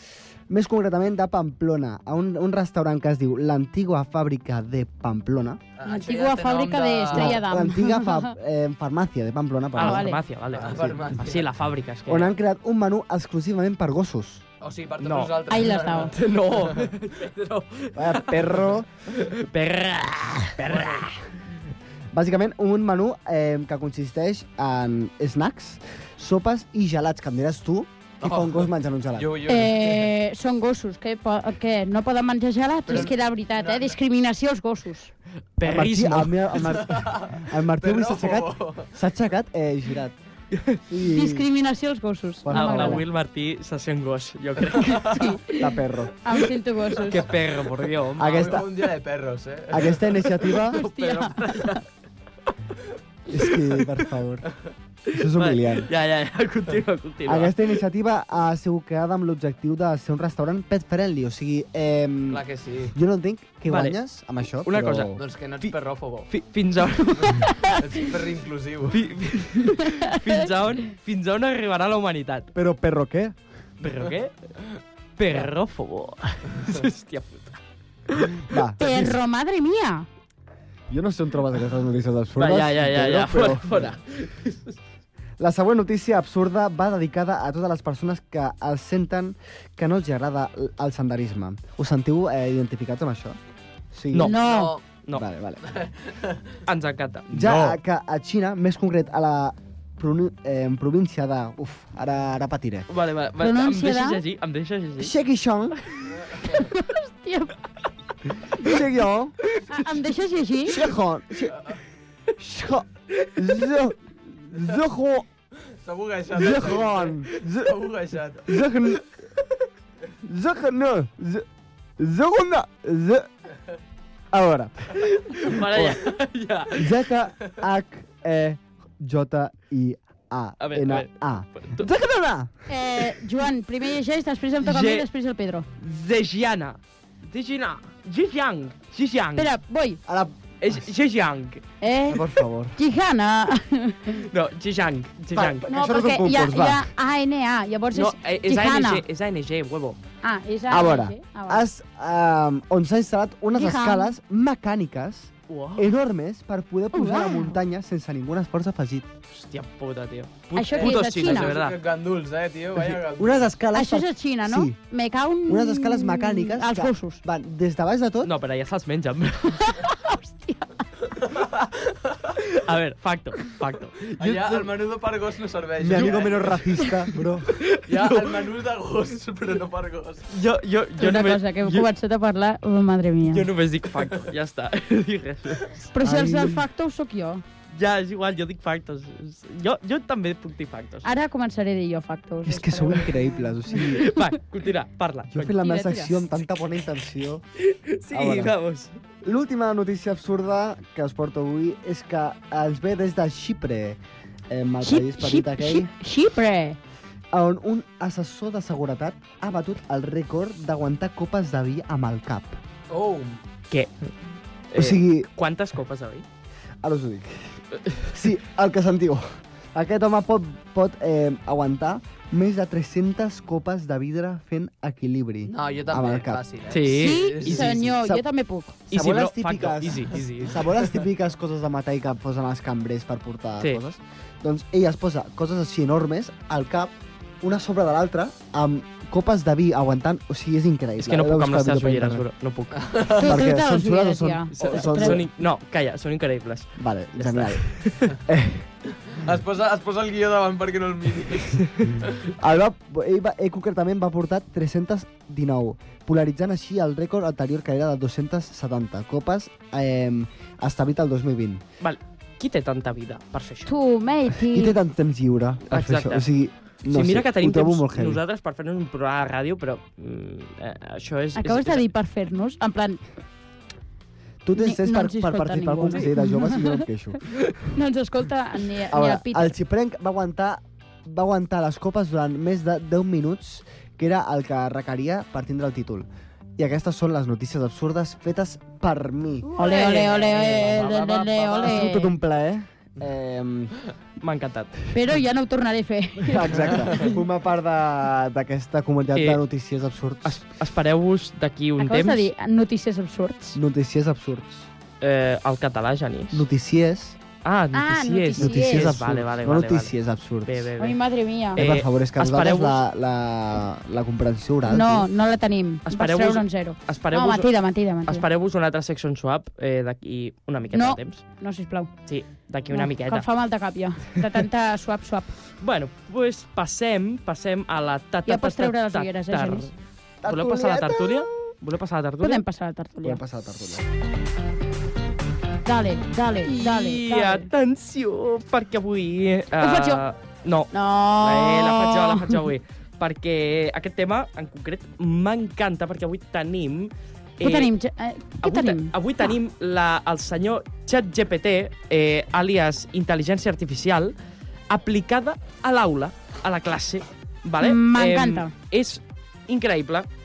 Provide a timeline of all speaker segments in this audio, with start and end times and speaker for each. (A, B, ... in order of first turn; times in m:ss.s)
0:00.5-0:05.6 A
0:05.8-0:07.4 B
0:05.8-0:08.3 C
0:07.1-0:11.0 A
0:09.8-0:12.3 D
0:09.8-0:10.2 C
0:10.5-0:11.4 B
0:12.1-0:14.4 A
0:14.6-0:16.9 B
0:15.0-0:21.0 D
0:15.5-0:16.1 C
0:18.0-0:18.9 A
0:20.6-0:21.0 A
0:20.6-0:21.0 B
0:22.1-0:29.3 A
0:28.2-0:30.1 B
0:29.5-0:35.1 C
0:32.9-0:34.0 B
0:35.6-0:36.8 D
0:35.6-0:40.2 A
0:36.8-0:38.9 B
0:40.5-0:40.8 D
0:40.9-0:41.5 A
0:41.0-0:43.0 C
0:42.4-0:43.0 A
0:42.5-0:45.3 D
0:44.8-0:45.1 B
0:44.8-0:45.7 C
0:45.6-0:46.1 A
0:46.2-0:47.3 C
0:47.0-0:48.6 D
0:48.2-0:48.7 A
0:48.2-0:50.3 B
0:49.7-0:50.8 A
0:50.7-0:51.8 D
0:50.7-0:51.8 C
0:53.3-0:54.5 A
0:53.4-0:54.0 D
0:55.1-0:57.7 D
0:55.1-0:55.9 A
0:57.2-1:05.2 A
1:02.3-1:02.9 B
1:03.7-1:04.0 D
1:04.6-1:05.7 D
1:05.2-1:06.3 B
1:06.2-1:07.5 D
1:07.2-1:09.0 B
1:07.4-1:07.8 C
1:08.9-1:12.5 D
1:09.8-1:10.3 C
1:12.5-1:13.4 A
1:13.8-1:14.3 D
1:15.2-1:19.1 D
1:18.4-1:18.8 A
1:18.8-1:20.1 C
1:20.9-1:23.9 A
1:22.4-1:24.7 D
1:25.4-1:33.4 A
1:33.9-1:34.4 A
1:34.1-1:34.4 D
1:34.2-1:34.7 C
1:34.4-1:34.8 B
1:35.1-1:35.7 A
1:35.7-1:36.6 B
1:36.7-1:37.3 D
1:37.3-1:37.8 B
1:37.3-1:42.9 A
1:42.9-1:45.1 D
1:43.4-1:44.2 C
1:45.0-1:45.8 A
1:46.5-1:47.6 C
1:48.6-1:49.4 A
1:49.7-1:50.8 C
1:50.6-1:51.6 A
1:52.4-1:55.2 A
1:55.7-1:58.6 B
1:56.3-1:57.8 A
1:58.5-1:59.0 A
2:00.2-2:01.4 A
2:02.0-2:03.3 A
2:04.3-2:06.0 A
2:05.0-2:07.0 D
2:06.7-2:12.5 A
2:10.6-2:11.9 D
2:12.7-2:15.6 C
2:14.6-2:15.1 D
2:15.8-2:19.5 D
2:19.4-2:20.0 C
2:20.0-2:20.8 A
2:20.6-2:21.6 D
2:21.8-2:24.2 C
2:22.1-2:22.8 A
2:24.3-2:25.7 D
2:25.3-2:26.9 A
2:25.7-2:29.0 C
2:27.9-2:30.0 D
2:30.2-2:31.6 C
2:30.7-2:39.1 A
2:33.5-2:34.1 C
2:35.5-2:35.9 D
2:36.9-2:37.6 C
2:39.3-2:41.8 D
2:40.5-2:41.5 C
2:40.7-2:43.5 B
2:43.2-2:44.8 A
2:43.7-2:47.2 C
2:45.5-2:48.3 A
2:48.2-2:49.9 D
2:49.6-2:50.7 C
2:51.3-2:52.3 B
2:52.5-2:54.0 D
2:54.1-2:56.9 B
2:54.2-2:54.7 A
2:55.8-2:57.5 A
2:57.6-2:58.5 D
2:57.9-3:00.3 B
3:00.3-3:01.9 D
3:01.0-3:03.4 C
3:03.3-3:05.8 D
3:05.9-3:07.4 C
3:06.0-3:06.6 A
3:07.7-3:11.1 D
3:11.0-3:13.2 C
3:12.4-3:14.1 A
3:13.8-3:15.5 D
3:15.3-3:17.4 A
3:15.6-3:16.2 C
3:17.6-3:18.9 D
3:18.1-3:18.5 A
3:19.2-3:25.9 A
3:24.8-3:26.8 C
3:27.3-3:32.6 A
3:32.9-3:33.4 B
3:34.7-3:36.2 D
3:34.8-3:35.3 A
3:36.8-3:37.6 A
3:38.1-3:46.4 A
3:45.5-3:47.7 B
3:46.7-3:47.7 D
3:46.8-3:48.8 C
3:47.7-3:48.2 A
3:48.9-3:50.9 D
3:48.9-4:02.2 A
4:01.0-4:02.9 D
4:02.8-4:03.3 B
4:03.2-4:05.2 C
4:03.2-4:05.3 A
4:04.6-4:08.0 D
4:06.8-4:08.7 A
4:09.1-4:12.3 B
4:12.4-4:21.6 A
4:21.8-4:23.7 D
4:23.6-4:24.8 C
4:24.5-4:28.2 A
4:25.7-4:26.3 D
4:26.8-4:31.8 D
4:31.3-4:33.0 C
4:34.4-4:37.2 A
4:34.6-4:36.8 C
4:37.7-4:39.5 C
4:38.9-4:49.5 A
4:49.6-4:52.1 C
4:49.6-4:50.8 D
4:50.2-4:51.8 B
4:51.6-4:53.7 A
4:54.2-4:54.8 D
4:54.9-4:57.1 C
4:56.2-5:00.4 A
4:59.1-4:59.4 D
5:00.2-5:02.3 D
5:01.8-5:03.6 C
5:03.5-5:04.7 A
5:05.0-5:06.4 D
5:06.3-5:07.2 A
5:07.4-5:09.9 D
5:07.7-5:08.9 C
5:08.4-5:10.7 A
5:10.4-5:11.0 D
5:10.8-5:11.6 C
5:11.5-5:12.8 D
5:11.6-5:15.1 A
5:14.7-5:18.2 C
5:15.9-5:17.5 D
5:18.0-5:21.2 D
5:20.7-5:21.9 C
5:22.1-5:23.2 D
5:22.7-5:25.3 C
5:25.6-5:29.7 D
5:28.3-5:29.6 C
5:30.2-5:31.5 A
5:30.2-5:32.4 D
5:32.2-5:33.2 C
5:33.0-5:33.8 A
5:35.6-5:37.5 C
5:36.5-5:47.7 D
5:39.6-5:40.0 C
5:40.7-5:42.3 C
5:47.4-5:49.3 C
5:48.4-5:54.1 D
5:54.7-6:00.1 D
5:57.6-5:58.5 C